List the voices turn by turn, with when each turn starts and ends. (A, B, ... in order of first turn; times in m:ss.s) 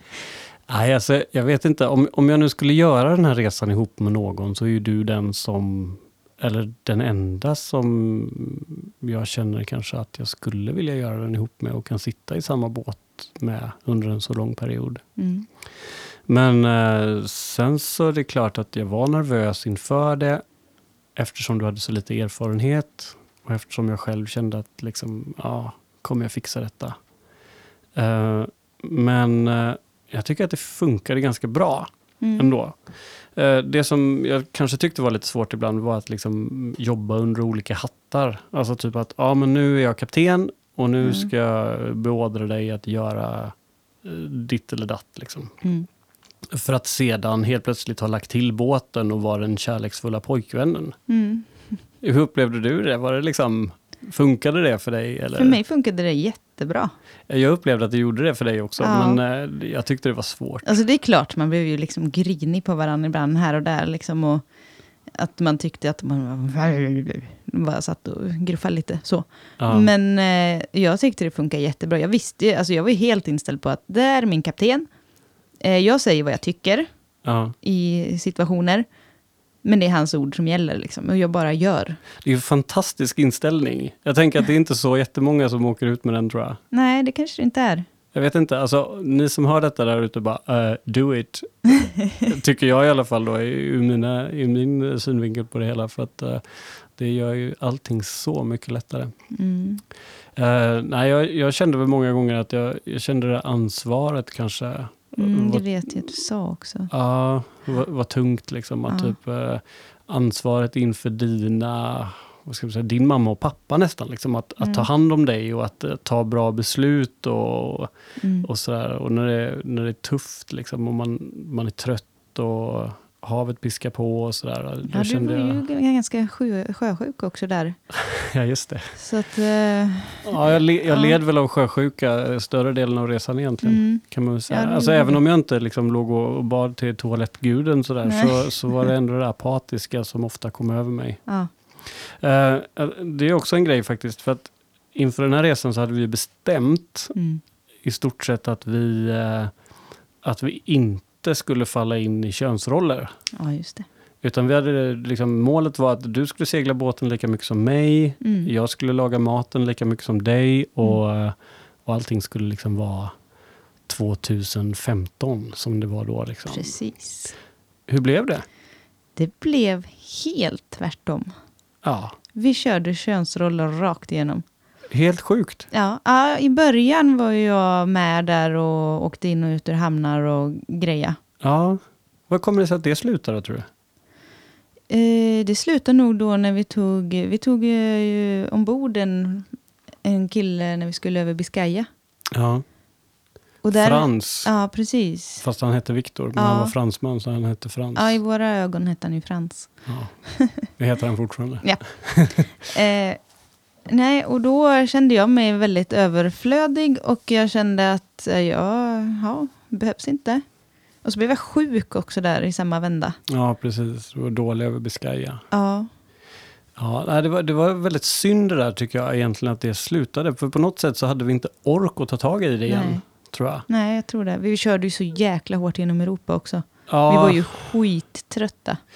0:00.7-0:15.0 A
0:15.2-0:15.5 B
0:16.3-0:20.4 A
0:21.2-0:27.0 A
0:27.9-0:32.8 A
0:32.2-0:32.5 B
0:33.3-0:45.5 A
0:41.0-0:41.3 B
0:46.5-0:51.0 A
0:51.1-0:51.5 B
0:52.0-0:55.6 A
0:55.4-0:56.9 B
0:57.3-1:00.8 A
0:58.8-0:59.2 B
1:00.6-1:04.4 B
1:05.1-1:14.9 B
1:09.6-1:09.9 A
1:15.6-1:16.9 B
1:17.2-1:17.5 A
1:17.6-1:18.8 B
1:19.6-1:22.0 B
1:22.2-1:26.6 A
1:26.7-1:27.8 B
1:28.1-1:36.4 A
1:31.8-1:32.2 B
1:36.9-1:39.1 A
1:39.3-1:39.8 B
1:40.4-1:45.7 A
1:45.2-1:46.9 B
1:46.9-2:05.6 A
1:48.9-1:49.1 B
1:54.6-1:54.9 B
1:58.2-1:58.5 B
2:04.9-2:07.8 B
2:07.9-2:09.0 A
2:09.0-2:11.2 B
2:10.2-2:21.2 A
2:13.6-2:15.2 B
2:18.0-2:18.6 B
2:21.8-2:27.1 A
2:27.1-2:27.4 B
2:27.8-2:29.5 A
2:30.2-2:33.1 A
2:33.3-2:33.8 B
2:34.2-2:43.1 A
2:38.2-2:38.5 B
2:43.9-2:46.7 A
2:46.5-2:47.3 B
2:47.9-2:48.4 A
2:49.2-2:51.3 B
2:51.8-2:52.2 A
2:52.3-2:54.4 B
2:54.9-2:55.7 A
2:55.7-3:01.2 B
3:01.4-3:03.7 A
3:04.9-3:09.5 B
3:10.0-3:11.9 B
3:12.3-3:12.6 A
3:13.6-3:15.4 B
3:13.8-3:14.5 A
3:15.4-3:18.2 A
3:16.4-3:16.7 B
3:17.9-3:19.7 B
3:19.9-3:20.1 A
3:20.2-3:20.7 B
3:20.7-3:22.5 A
3:22.5-3:23.2 B
3:23.9-3:30.4 B
3:31.0-3:33.2 B
3:33.3-3:35.4 A
3:35.5-3:35.9 B
3:36.8-3:43.6 A
3:42.7-3:43.0 B
3:43.7-3:48.8 B
3:46.9-3:47.7 A